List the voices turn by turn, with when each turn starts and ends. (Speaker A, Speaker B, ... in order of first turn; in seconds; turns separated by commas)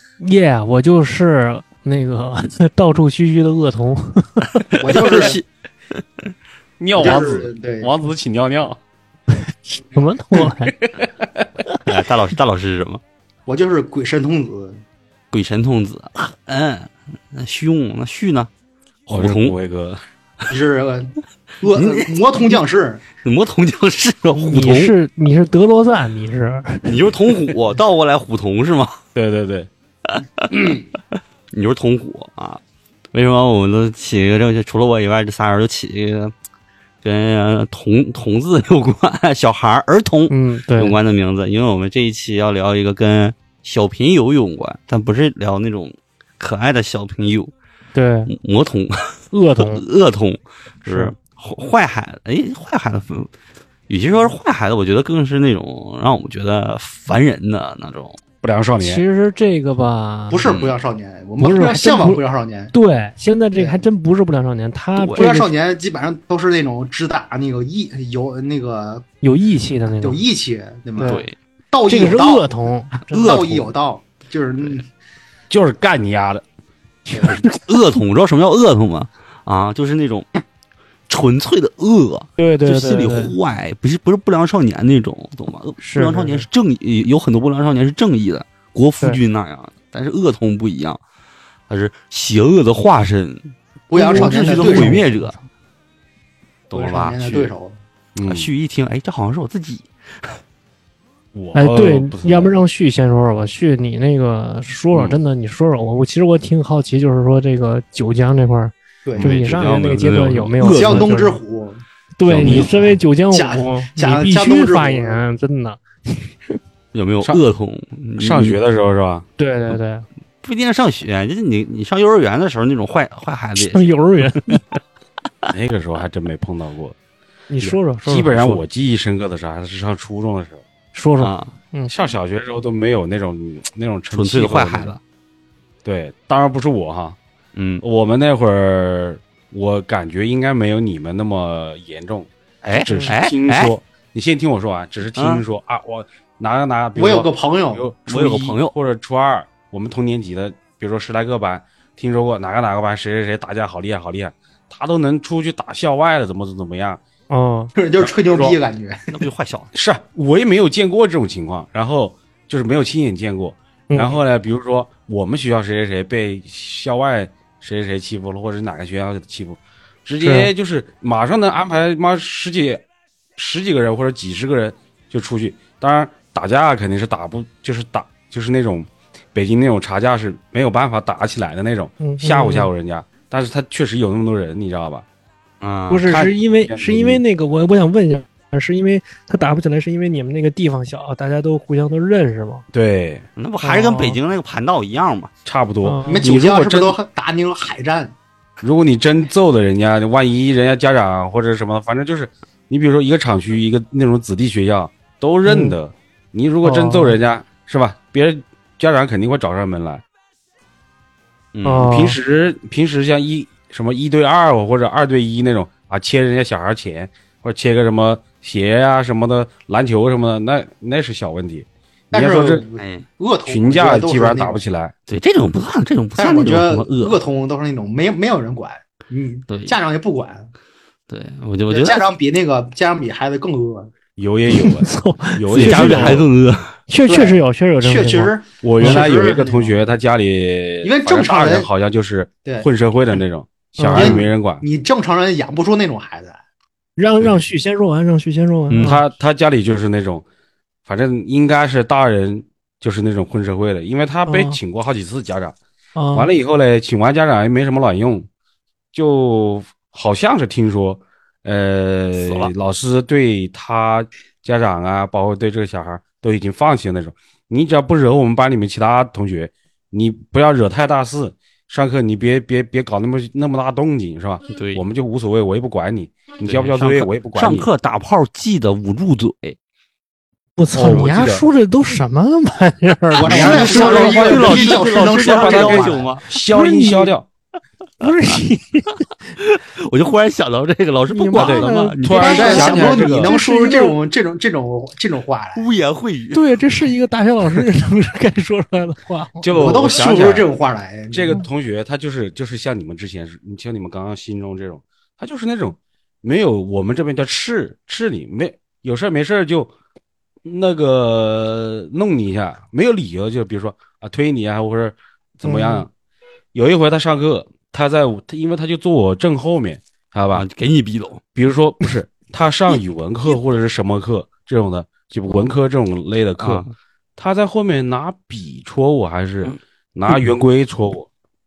Speaker A: 0.2-4.7, Speaker B: 4.7-5.4, Speaker C: 4.8-5.4, Speaker D: 4.9-5.4, Speaker D: 6.8-8.8, Speaker C: 7.0-7.9, Speaker A: 9.4-10.7, Speaker D: 10.7-11.4, Speaker B: 11.8-13.0, Speaker C: 13.5-14.8, Speaker B: 15.3-18.5, Speaker D: 19.1-20.0, Speaker B: 19.1-19.6, Speaker C: 20.5-23.0, Speaker B: 21.7-22.1, Speaker B: 23.2-24.9, Speaker A: 24.4-26.9, Speaker B: 26.8-29.0, Speaker D: 29.1-29.7, Speaker B: 30.1-30.7, Speaker D: 30.5-30.8, Speaker B: 31.5-32.6, Speaker B: 33.1-36.3, Speaker B: 37.0-47.5, Speaker A: 40.3-41.0, Speaker A: 48.0-48.3, Speaker B: 48.3-53.3, Speaker A: 49.3-49.9, Speaker A: 50.8-51.1, Speaker B: 53.9-58.2, Speaker D: 58.4-59.0, Speaker A: 58.8-60.5, Speaker C: 60.3-62.7, Speaker B: 60.4-60.7, Speaker A: 61.4-62.2, Speaker A: 62.7-65.5, Speaker C: 63.6-63.9, Speaker B: 65.0-65.3, Speaker C: 65.2-69.0, Speaker A: 69.2-70.2, Speaker C: 69.9-72.5, Speaker A: 71.0-71.3, Speaker B: 71.0-71.3, Speaker A: 71.9-73.6, Speaker B: 73.1-73.7, Speaker C: 73.1-74.9, Speaker D: 75.5-76.4, Speaker A: 77.1-77.6, Speaker B: 77.2-80.3, Speaker B: 81.1-91.0, Speaker A: 82.4-83.3, Speaker A: 85.8-86.5, Speaker B: 91.7-95.3, Speaker C: 93.9-95.0, Speaker A: 93.9-95.4, Speaker B: 96.7-97.5, Speaker C: 96.7-97.8, Speaker D: 98.2-98.5, Speaker B: 98.2-100.4, Speaker D: 101.3-102.5, Speaker A: 101.5-111.4, Speaker C: 109.0-109.3, Speaker B: 109.2-111.0, Speaker C: 110.6-111.8, Speaker A: 112.2-116.6, Speaker B: 112.3-112.7, Speaker D: 112.4-112.8, Speaker C: 113.3-115.2, Speaker B: 116.9-118.6, Speaker D: 118.2-119.3, Speaker A: 119.4-120.0, Speaker B: 120.4-123.9, Speaker A: 123.6-124.8, Speaker D: 125.5-127.0, Speaker A: 127.5-128.6, Speaker D: 127.6-130.6, Speaker A: 130.9-131.9, Speaker B: 131.2-131.5, Speaker D: 131.9-134.9, Speaker B: 134.1-135.0, Speaker D: 135.8-137.2, Speaker B: 137.6-137.8, Speaker D: 137.8-157.0, Speaker B: 142.6-143.7, Speaker A: 142.9-143.1, Speaker B: 145.1-145.4, Speaker C: 146.9-147.9, Speaker B: 148.1-148.7, Speaker A: 157.3-157.7, Speaker C: 157.7-159.0, Speaker D: 158.0-158.6, Speaker B: 159.1-159.7, Speaker D: 159.7-172.8, Speaker A: 163.9-164.2, Speaker A: 170.2-170.5, Speaker D: 173.4-185.1, Speaker A: 182.0-182.7, Speaker B: 185.6-186.1, Speaker A: 185.9-192.7, Speaker D: 186.1-187.2, Speaker D: 192.7-193.3, Speaker B: 193.4-195.3, Speaker A: 193.6-194.2, Speaker D: 195.5-197.0, Speaker A: 195.8-196.2, Speaker C: 196.0-198.2, Speaker D: 198.6-210.0, Speaker A: 205.5-205.8, Speaker A: 206.6-207.2, Speaker D: 211.6-222.6, Speaker A: 211.7-212.2, Speaker C: 222.1-224.6, Speaker B: 222.8-223.1, Speaker D: 223.5-224.9, Speaker B: 225.1-227.2, Speaker C: 226.2-230.5, Speaker B: 229.5-229.8, Speaker B: 231.1-232.0, Speaker C: 231.7-233.9, Speaker D: 234.2-236.3, Speaker A: 234.5-236.2, Speaker B: 235.5-236.7, Speaker A: 236.9-239.1, Speaker C: 237.1-239.8, Speaker D: 238.6-244.6, Speaker C: 240.8-241.7, Speaker A: 243.8-244.2, Speaker C: 243.9-246.4, Speaker A: 247.0-249.0, Speaker B: 248.7-249.0, Speaker D: 248.8-250.2, Speaker D: 250.9-255.6, Speaker A: 254.3-254.6, Speaker A: 256.0-256.3, Speaker D: 256.1-258.3, Speaker D: 258.9-277.7, Speaker B: 262.2-262.5, Speaker B: 274.5-274.8, Speaker B: 276.4-279.6, Speaker A: 280.6-284.2, Speaker D: 280.7-281.5, Speaker C: 283.1-286.2, Speaker D: 283.2-287.2, Speaker B: 283.3-286.3, Speaker A: 286.3-287.1, Speaker A: 288.0-289.1, Speaker B: 289.4-292.8, Speaker A: 291.1-294.0, Speaker D: 291.4-293.4, Speaker C: 292.3-295.7, Speaker B: 295.6-296.4, Speaker A: 296.3-299.5, Speaker D: 299.4-300.5, Speaker C: 299.5-301.4, Speaker B: 299.7-300.4, Speaker D: 301.1-309.7, Speaker D: 310.4-315.9, Speaker A: 315.4-315.9, Speaker D: 316.5-320.4, Speaker B: 320.3-321.2, Speaker D: 321.4-326.6, Speaker B: 326.4-326.7, Speaker D: 327.2-331.1